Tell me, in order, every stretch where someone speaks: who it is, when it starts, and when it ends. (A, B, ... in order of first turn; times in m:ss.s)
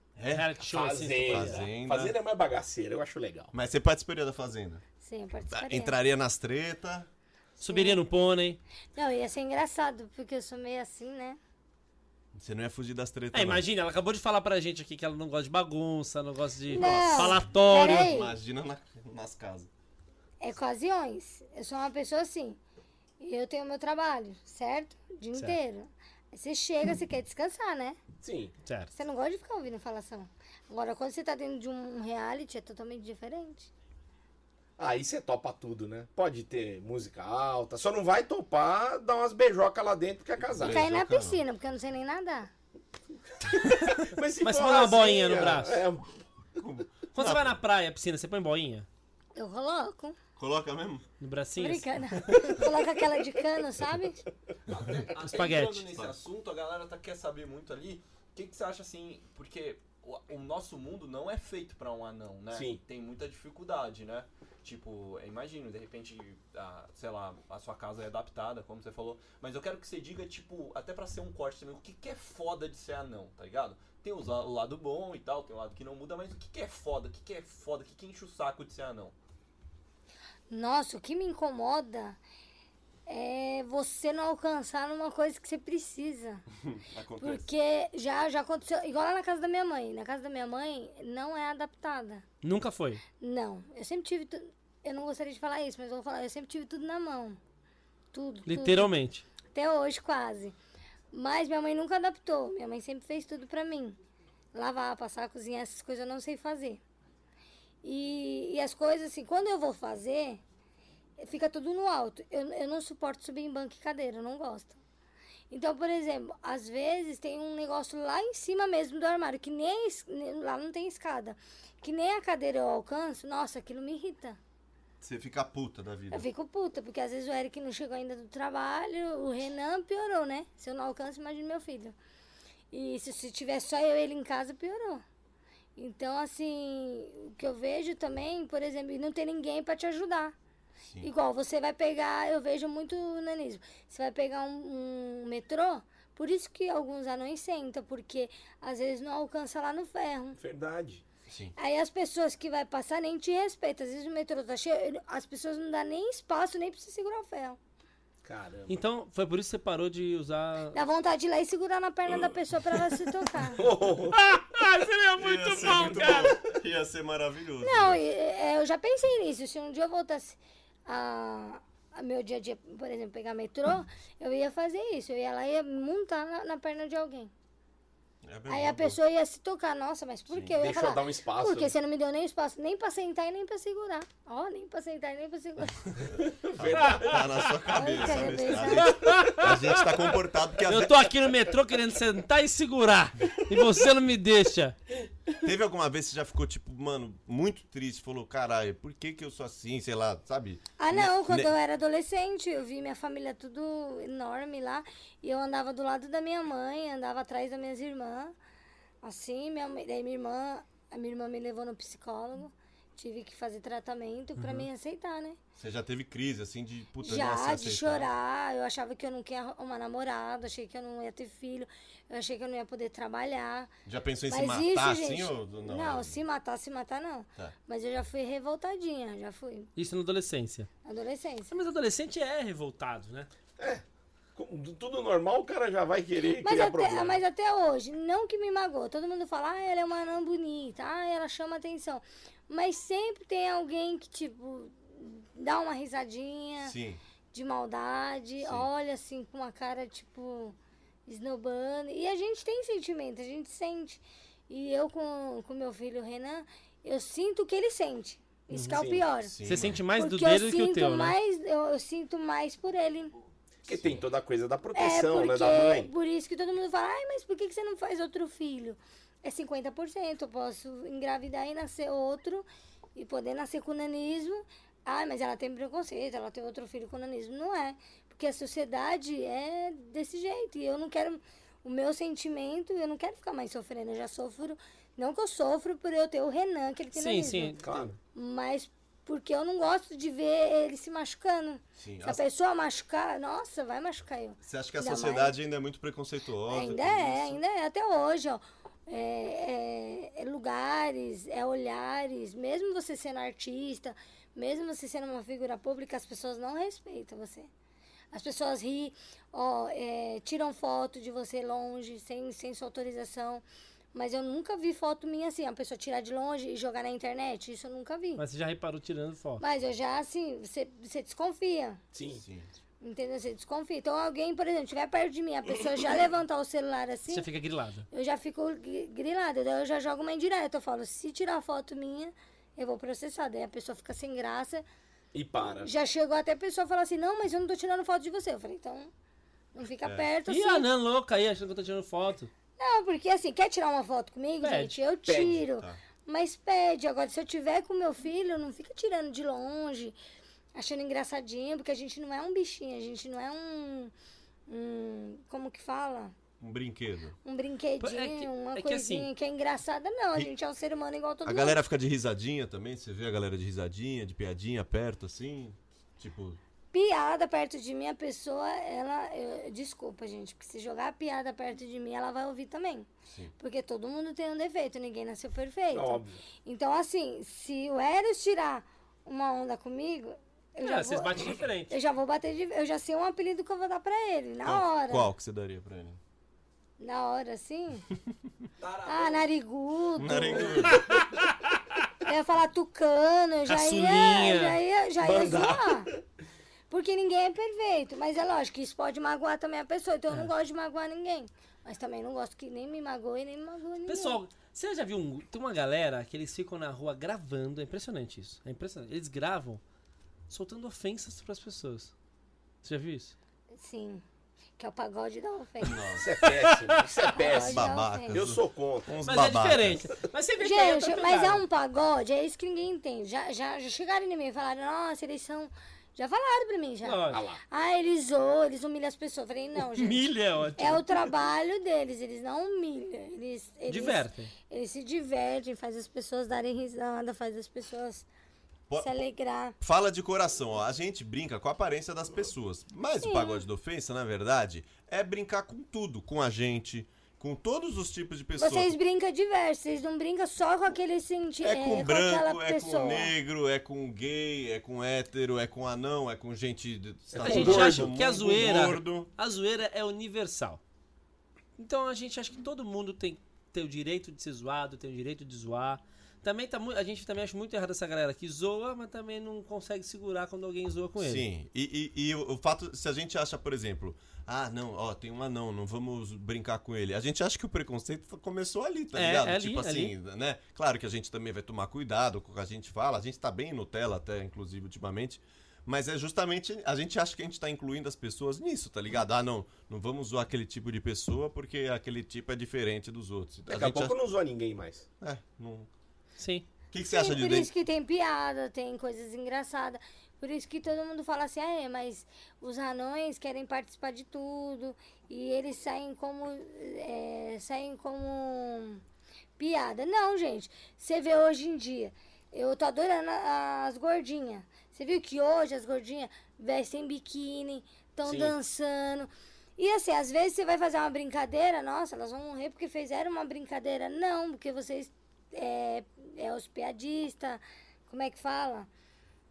0:00.2-0:00.5 A
0:00.3-0:01.7 B
0:00.6-0:03.5 C
0:01.2-0:02.2 A
0:03.5-0:04.8 A
0:05.0-0:06.0 D
0:05.5-0:07.1 A
0:07.6-0:08.6 B
0:07.6-0:08.0 D
0:09.0-0:11.4 D
0:12.4-0:13.6 A
0:13.3-0:18.1 B
0:16.7-0:18.3 D
0:16.7-0:19.7 A
0:20.4-0:22.6 D
0:23.2-0:28.0 D
0:28.2-0:28.5 C
0:28.7-0:28.9 B
0:28.9-0:33.7 D
0:34.8-0:40.9 C
0:40.4-0:41.4 A
0:40.6-0:42.5 D
0:43.5-0:46.1 C
0:44.4-0:45.8 B
0:46.6-0:47.6 A
0:47.2-0:48.9 B
0:49.4-0:50.2 D
0:50.4-0:51.0 A
0:51.2-0:52.4 B
0:51.6-0:54.2 D
0:54.7-1:19.2 E
0:55.2-0:55.9 B
1:02.5-1:02.8 C
1:20.5-1:22.2 D
1:23.1-1:26.4 D
1:26.6-1:27.4 A
1:27.2-1:32.2 D
1:32.4-1:33.0 B
1:33.2-1:37.4 D
1:38.1-1:38.9 D
1:38.5-1:39.2 B
1:39.5-1:40.6 D
1:41.1-1:44.0 D
1:44.5-1:46.8 D
1:47.8-1:50.4 D
1:51.2-1:54.8 D
1:55.5-2:04.4 D
2:05.0-2:06.3 A
2:06.1-2:12.0 D
2:12.7-2:15.0 D
2:15.8-2:20.3 D
2:21.0-2:30.4 D
2:30.4-2:31.0 C
2:31.3-2:31.5 A
2:31.6-2:37.6 D
2:38.2-2:38.8 C
2:38.7-2:40.8 B
2:40.7-2:43.7 D
2:43.5-2:44.2 C
2:44.1-2:46.4 B
2:45.2-2:48.0 A
2:46.0-2:46.3 C
2:47.6-2:57.3 D
2:58.2-2:59.0 A
2:58.5-3:06.1 D
3:00.3-3:00.6 A
3:00.6-3:01.7 C
3:06.2-3:07.5 C
3:06.6-3:11.1 A
3:07.7-3:09.0 D
3:08.8-3:09.9 B
3:10.6-3:14.8 B
3:15.4-3:21.5 A
3:20.8-3:28.3 D
3:29.0-3:35.4 D
3:34.4-3:34.7 B
3:35.6-3:38.1 A
3:37.0-3:43.7 D
3:43.9-3:46.2 A
3:44.3-3:49.7 D
3:49.8-3:50.7 B
3:50.8-3:51.5 D
3:51.5-3:53.3 B
3:53.6-3:53.8 C
3:54.4-3:57.2 C
3:56.4-4:06.8 D
4:06.6-4:07.0 A
4:07.3-4:10.6 D
4:08.4-4:08.7 A
4:11.1-4:19.3 D
4:18.5-4:18.8 B
4:18.7-4:19.1 C
4:19.2-4:19.8 A
4:19.4-4:21.2 B
4:19.9-4:23.1 D
4:23.6-4:25.9 C
4:23.7-4:24.0 A
4:24.7-4:55.3 D
4:46.9-4:47.6 B
4:47.6-4:48.0 C
4:51.8-4:52.2 A
4:54.4-4:57.4 A
4:56.5-5:07.5 D
5:08.1-5:13.4 D
5:13.9-5:18.2 D
5:18.2-5:19.4 B
5:19.4-5:21.8 D
5:21.9-5:22.2 C
5:22.1-5:22.5 A
5:22.8-5:27.3 D
5:27.1-5:27.9 B
5:27.9-5:34.6 D
5:35.1-5:35.7 C
5:35.6-5:38.9 D
5:39.6-5:40.7 D
5:40.3-5:42.3 B
5:42.6-5:50.0 D
5:44.4-5:44.8 B
5:45.1-5:45.4 C
5:50.6-5:53.9 D
5:54.5-5:56.1 D
5:56.4-5:57.2 A
5:57.2-6:01.6 D
5:57.8-5:59.1 B
6:01.2-6:06.4 A
6:06.7-6:12.9 D
6:13.4-6:25.1 D
6:15.7-6:16.2 C
6:20.6-6:21.8 B
6:24.4-6:26.0 A
6:26.8-6:27.9 D
6:28.6-6:29.3 E
6:28.9-6:30.8 D
6:30.0-6:30.9 A
6:30.7-6:31.6 B
6:32.0-6:35.9 D
6:33.5-6:34.6 B
6:35.0-6:36.0 C
6:36.7-6:44.2 D
6:43.9-6:49.6 B
6:50.3-6:51.9 B
6:52.6-6:53.2 B
6:53.6-6:54.0 D
6:54.6-6:56.0 D
6:55.6-6:56.1 A
6:56.0-6:59.0 C
6:56.3-6:57.0 B
6:57.1-6:58.2 D
6:57.2-6:59.9 A
6:59.0-7:01.4 B
7:00.4-7:10.1 D
7:06.8-7:07.2 B
7:07.1-7:07.4 C
7:09.6-7:11.1 B
7:10.6-7:18.1 D
7:13.7-7:14.3 B
7:18.7-7:19.0 A
7:18.8-7:19.6 D
7:19.6-7:28.8 A
7:23.0-7:23.4 D
7:28.4-7:33.1 D
7:31.4-7:39.1 A
7:37.1-7:37.9 C
7:37.2-7:40.6 B
7:41.6-7:51.3 B
7:51.0-8:14.0 A
7:58.9-8:00.0 B
8:13.5-8:14.9 C
8:15.0-8:15.7 A
8:16.2-8:16.5 B
8:16.7-8:17.5 A
8:16.9-8:28.8 D
8:29.4-8:48.7 D
8:38.1-8:38.3 B